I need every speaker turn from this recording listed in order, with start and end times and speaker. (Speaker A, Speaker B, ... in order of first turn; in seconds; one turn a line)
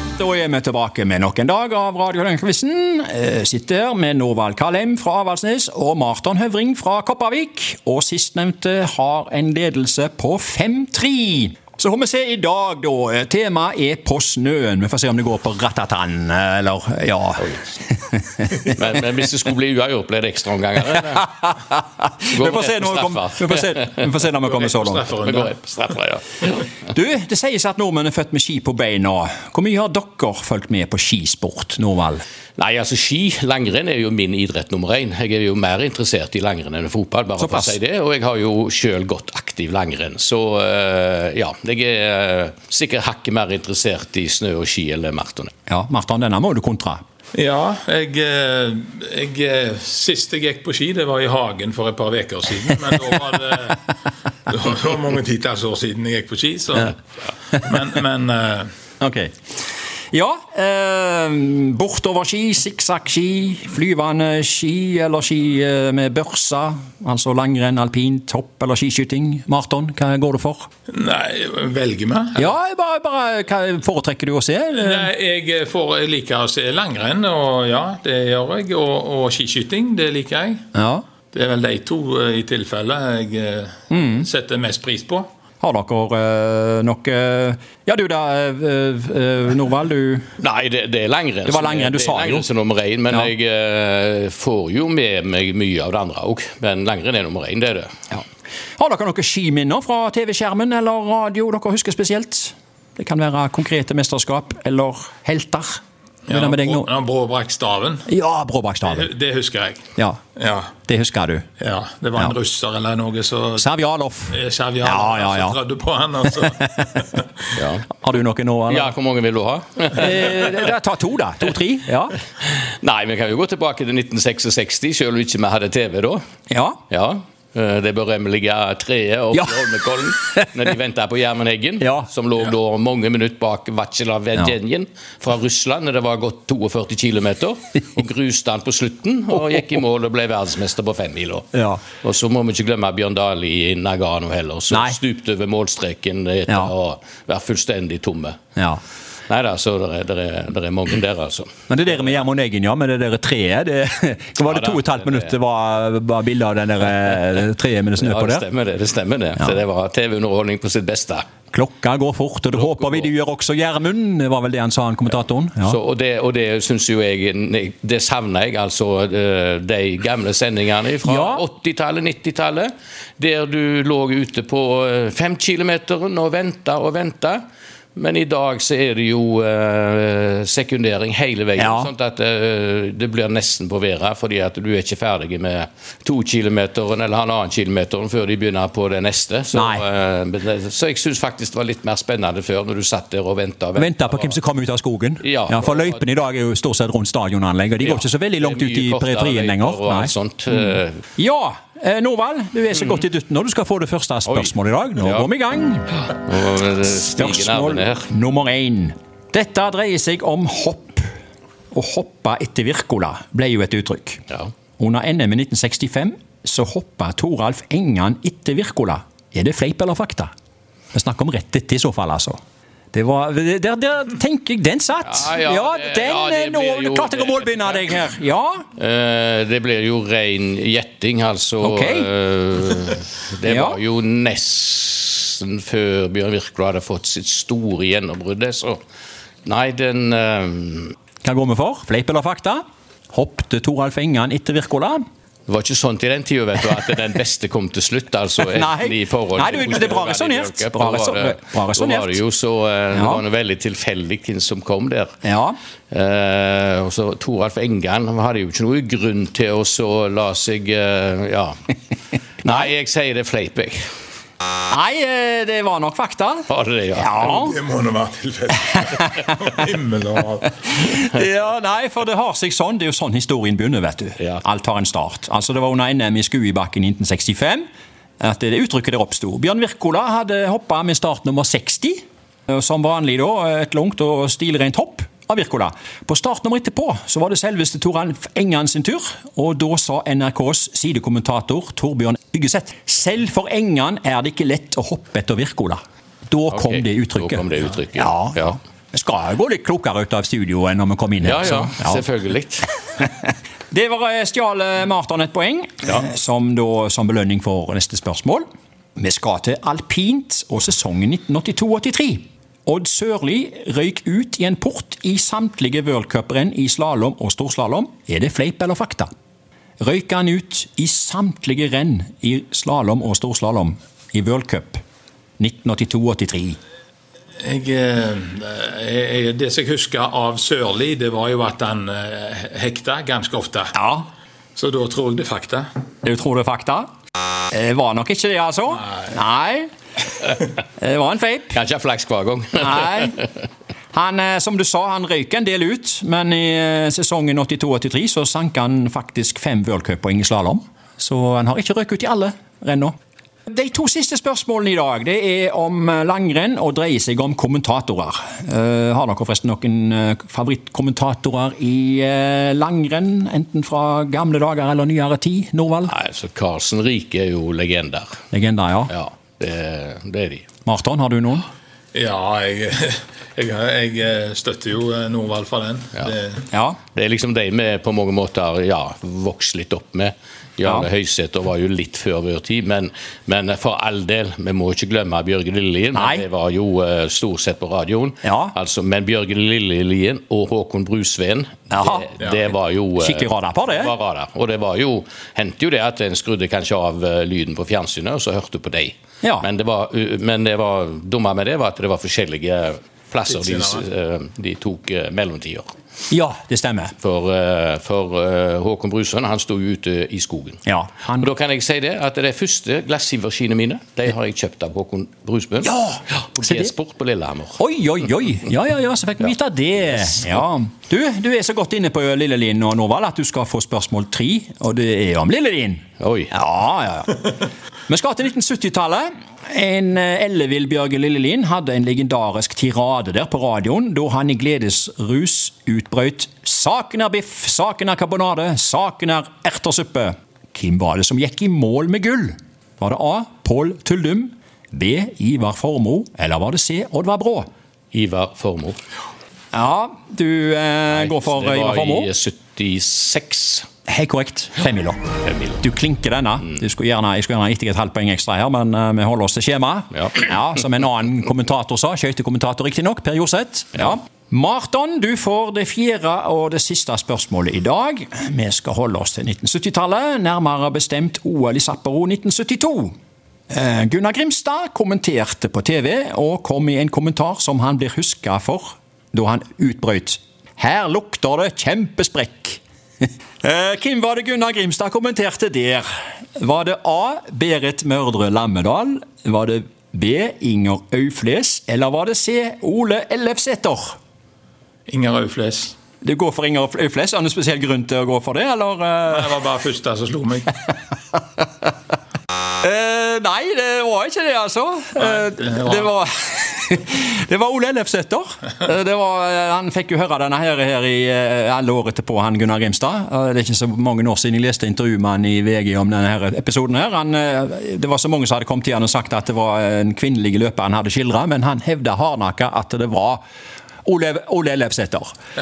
Speaker A: 0.2-18.7
Speaker B: 18.7-21.3
Speaker A: 20.9-25.1
Speaker B: 22.3-24.1
Speaker C: 24.5-25.5
Speaker B: 25.2-26.7
Speaker A: 26.9-32.2
Speaker B: 32.6-45.5
Speaker A: 37.4-37.8
Speaker A: 45.7-47.0
Speaker C: 47.3-53.8
Speaker C: 54.5-57.0
Speaker C: 57.5-58.7
Speaker A: 59.0-59.3
Speaker A: 60.1-70.7
Speaker C: 70.9-72.5
Speaker A: 72.4-75.1
Speaker C: 74.7-80.7
Speaker A: 80.7-81.0
Speaker C: 81.3-85.3
Speaker A: 83.9-84.3
Speaker A: 85.6-90.3
Speaker B: 90.4-97.9
Speaker A: 91.5-92.5
Speaker A: 98.8-106.9
Speaker C: 106.3-108.1
Speaker A: 108.1-109.1
Speaker C: 108.9-109.8
Speaker C: 110.4-110.7
Speaker A: 110.9-111.5
Speaker C: 111.6-113.7
Speaker A: 113.6-115.6
Speaker C: 114.3-116.7
Speaker A: 116.2-117.2
Speaker B: 117.6-117.9
Speaker A: 117.9-119.0
Speaker B: 118.7-120.7
Speaker A: 119.9-122.2
Speaker B: 122.4-126.2
Speaker A: 126.5-126.8
Speaker B: 126.9-148.4
Speaker A: 131.8-132.1
Speaker A: 141.5-141.8
Speaker A: 144.7-145.0
Speaker B: 149.3-151.5
Speaker A: 151.7-158.5
Speaker B: 154.4-155.3
Speaker B: 158.0-161.3
Speaker A: 161.5-165.8
Speaker B: 162.6-163.1
Speaker B: 165.6-177.4
Speaker A: 171.0-171.4
Speaker B: 178.0-194.4
Speaker A: 181.6-181.9
Speaker A: 189.5-189.8
Speaker A: 193.8-205.9
Speaker B: 195.2-196.0
Speaker B: 197.8-201.0
Speaker B: 204.3-205.3
Speaker B: 206.2-208.1
Speaker A: 206.9-211.1
Speaker A: 211.7-214.2
Speaker A: 214.8-220.3
Speaker A: 220.9-222.4
Speaker A: 222.9-228.7
Speaker B: 225.1-227.8
Speaker B: 228.8-238.8
Speaker A: 231.6-232.1
Speaker A: 233.4-233.8
Speaker B: 239.4-241.0
Speaker A: 241.2-245.0
Speaker B: 245.5-255.1
Speaker A: 248.5-252.2
Speaker A: 252.9-253.2
Speaker A: 255.2-255.6
Speaker B: 255.9-261.6
Speaker B: 262.4-263.8
Speaker A: 264.7-267.6
Speaker B: 266.5-267.4
Speaker C: 267.3-270.5
Speaker A: 268.7-269.3
Speaker A: 270.5-277.6
Speaker A: 278.2-302.0
Speaker B: 296.5-298.6
Speaker B: 301.2-302.7
Speaker A: 303.7-308.4
Speaker A: 309.0-319.1
Speaker A: 319.8-324.8
Speaker A: 325.4-326.6
Speaker C: 327.4-333.8
Speaker A: 333.7-334.1
Speaker C: 334.6-335.7
Speaker A: 336.0-336.9
Speaker A: 337.5-339.7
Speaker A: 340.8-341.6
Speaker B: 341.5-343.2
Speaker A: 342.6-343.2
Speaker A: 343.9-352.9
Speaker A: 353.5-365.9
Speaker B: 365.9-368.2
Speaker A: 368.3-368.9
Speaker B: 368.9-370.5
Speaker A: 370.6-371.4
Speaker C: 371.9-376.5
Speaker A: 376.5-376.8
Speaker B: 376.9-405.7
Speaker A: 380.6-380.9
Speaker A: 385.9-386.3
Speaker A: 388.2-388.6
Speaker A: 391.7-392.1
Speaker A: 393.0-393.9
Speaker C: 403.3-403.8
Speaker A: 406.1-406.9
Speaker B: 407.0-417.6
Speaker A: 410.7-411.3
Speaker A: 415.6-416.7
Speaker A: 417.6-427.4
Speaker B: 426.0-426.3
Speaker A: 427.9-447.5
Speaker B: 447.9-448.8
Speaker A: 449.5-452.1
Speaker B: 450.9-453.7
Speaker A: 453.9-472.9
Speaker B: 455.2-455.6
Speaker B: 459.9-460.2
Speaker A: 473.5-482.6
Speaker A: 483.4-494.0
Speaker C: 494.9-495.8
Speaker A: 496.0-499.4
Speaker C: 499.1-500.5
Speaker A: 502.6-523.2
Speaker C: 505.0-505.9
Speaker A: 523.9-525.1